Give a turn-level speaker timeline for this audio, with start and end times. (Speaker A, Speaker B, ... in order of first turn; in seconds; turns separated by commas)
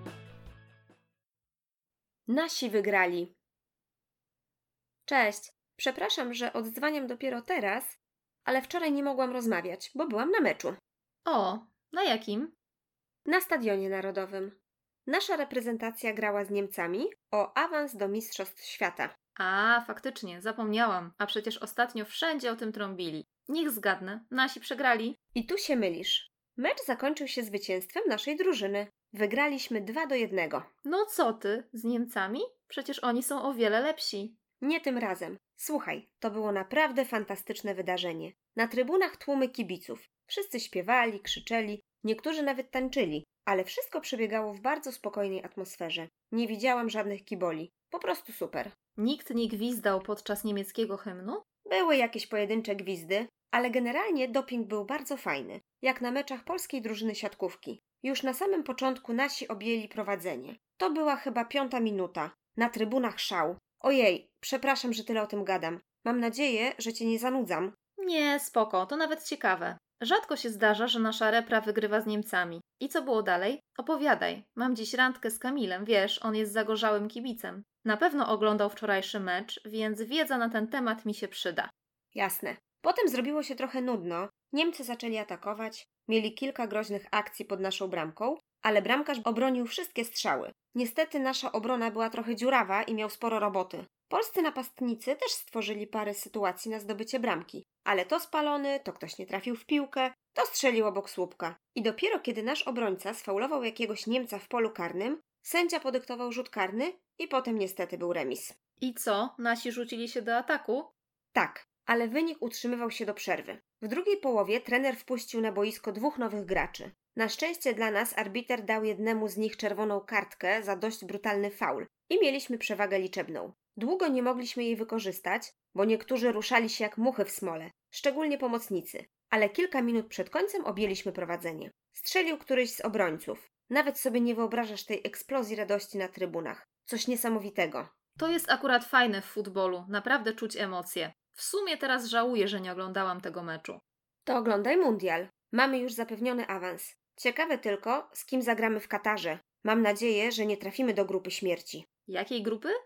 Speaker A: 2.3-3.3, Speaker A: 5.0-10.8, Speaker B: 11.2-12.5, Speaker A: 13.2-19.1, Speaker B: 19.4-25.2, Speaker A: 25.3-30.7, Speaker B: 30.8-34.4, Speaker A: 34.6-48.7, Speaker B: 49.0-51.4, Speaker A: 51.6-67.8, Speaker B: 68.0-81.7, Speaker A: 82.1-108.5, Speaker B: 108.8-110.9, Speaker A: 111.3-137.9, Speaker B: 138.2-143.8, Speaker A: 144.2-151.8, Speaker B: 152.1-152.7